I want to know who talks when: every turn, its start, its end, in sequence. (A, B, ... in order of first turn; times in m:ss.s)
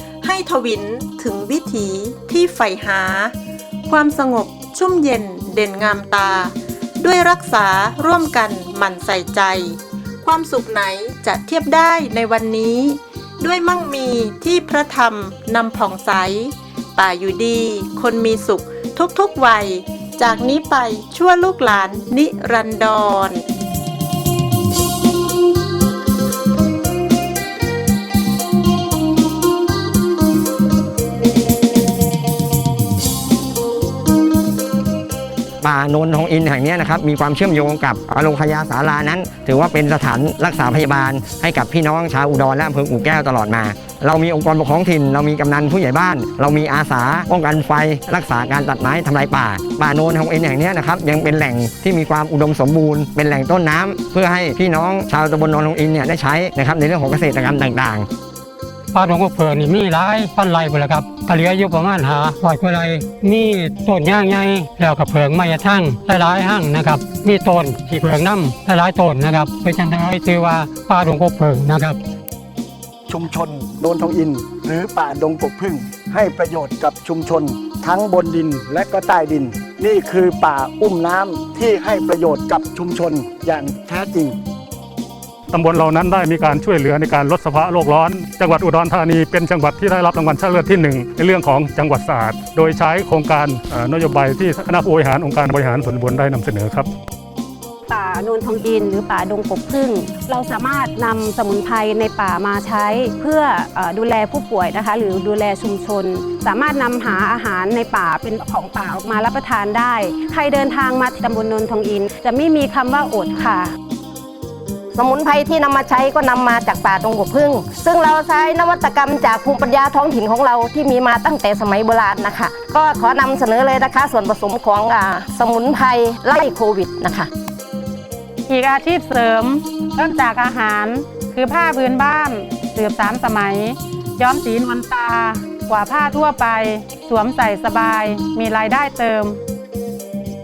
0:00.2-0:03.3 A
0:03.9-0:23.4 A
0:35.6-0:58.1 B
0:58.9-1:12.0 C
1:13.1-1:24.4 D
1:25.5-1:36.9 E
1:37.9-1:53.7 F
1:55.0-2:07.3 G
2:08.5-2:19.4 H